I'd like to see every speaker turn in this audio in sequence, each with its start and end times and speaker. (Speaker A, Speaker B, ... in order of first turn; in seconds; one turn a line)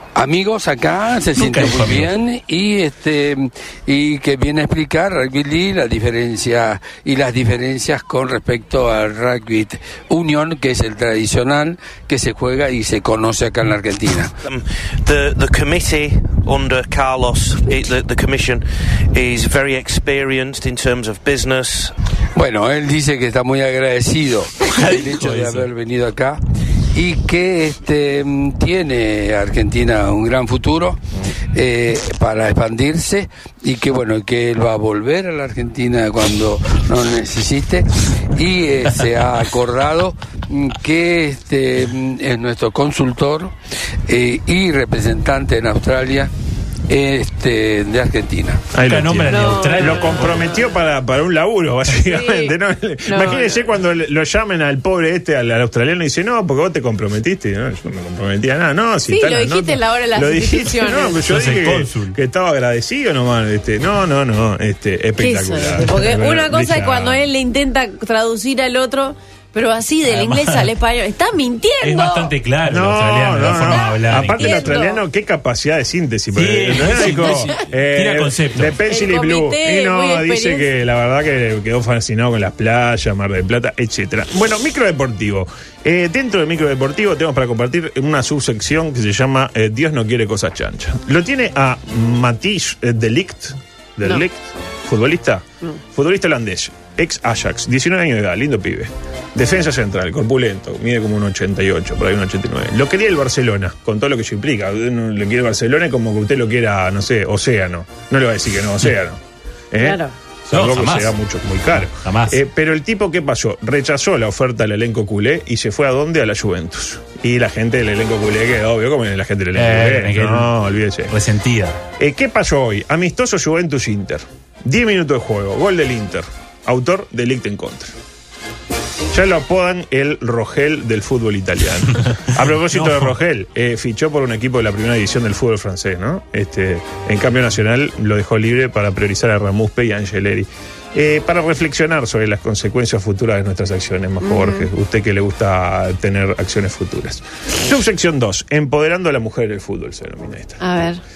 Speaker A: 0.1-14.3
Speaker B: 1.3-2.1
Speaker C: 14.4-21.9
Speaker A: 22.3-26.4
Speaker B: 24.7-25.7
Speaker A: 26.9-31.0
Speaker A: 31.5-43.5
Speaker A: 44.1-46.3
Speaker A: 46.9-48.6
Speaker D: 48.7-67.3
Speaker B: 48.8-50.5
Speaker E: 49.3-50.5
Speaker E: 51.9-52.5
Speaker E: 53.0-53.7
Speaker E: 59.1-61.2
Speaker B: 61.3-62.1
Speaker E: 65.2-72.3
Speaker B: 70.1-70.7
Speaker B: 71.8-74.7
Speaker D: 72.7-109.2
Speaker E: 73.4-75.0
Speaker B: 76.3-78.7
Speaker E: 78.9-80.7
Speaker D: 109.7-121.1
Speaker E: 109.8-110.1
Speaker B: 110.5-111.1
Speaker B: 111.9-112.4
Speaker B: 119.5-120.5
Speaker B: 121.1-121.8
Speaker D: 122.0-127.9
Speaker D: 129.1-150.6
Speaker B: 132.7-133.1
Speaker E: 144.2-144.7
Speaker E: 150.6-151.0